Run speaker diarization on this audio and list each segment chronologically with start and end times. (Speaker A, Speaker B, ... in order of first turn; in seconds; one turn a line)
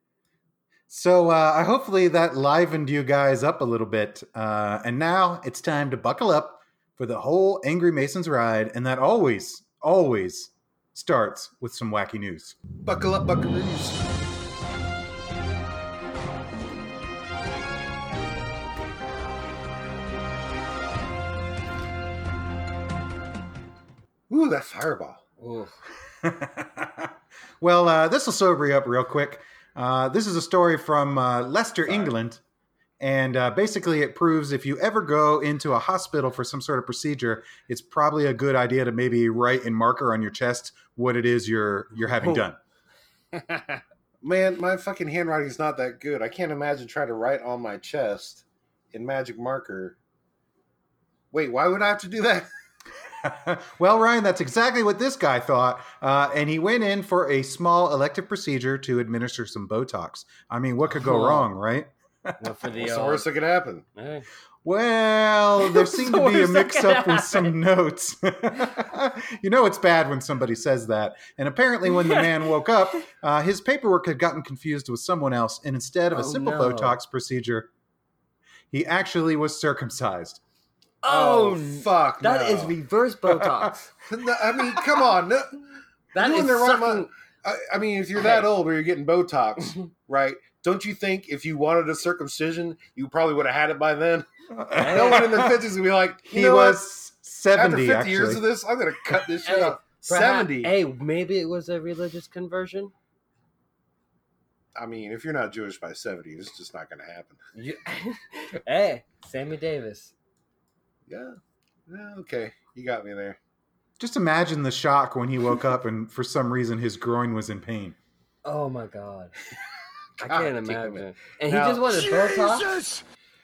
Speaker A: 0.9-12.6
Speaker B: 12.8-14.0
Speaker B: 24.3-25.2
Speaker C: 25.4-25.8
Speaker A: 26.2-32.4
Speaker A: 33.0-42.6
Speaker C: 42.0-42.4
Speaker C: 43.3-43.8
Speaker B: 44.2-50.0
Speaker B: 51.3-52.5
Speaker A: 53.2-62.5
Speaker C: 60.9-61.5
Speaker C: 62.4-63.3
Speaker B: 62.7-63.9
Speaker C: 64.0-64.3
Speaker A: 64.6-77.7
Speaker C: 65.6-67.6
Speaker C: 71.9-72.3
Speaker C: 76.1-77.0
Speaker A: 78.7-80.4
Speaker C: 81.0-84.0
Speaker B: 81.1-82.8
Speaker A: 83.3-83.6
Speaker B: 84.1-85.6
Speaker C: 86.1-87.1
Speaker B: 86.2-96.8
Speaker C: 88.2-88.5
Speaker A: 94.5-95.6
Speaker C: 94.8-95.4
Speaker A: 96.2-98.5
Speaker B: 97.5-100.7
Speaker C: 99.4-102.9
Speaker B: 104.8-107.4
Speaker C: 107.5-110.1
Speaker B: 111.1-111.4
Speaker B: 111.9-113.4
Speaker A: 114.0-118.0
Speaker C: 118.4-119.3
Speaker C: 120.2-122.8
Speaker B: 120.2-123.0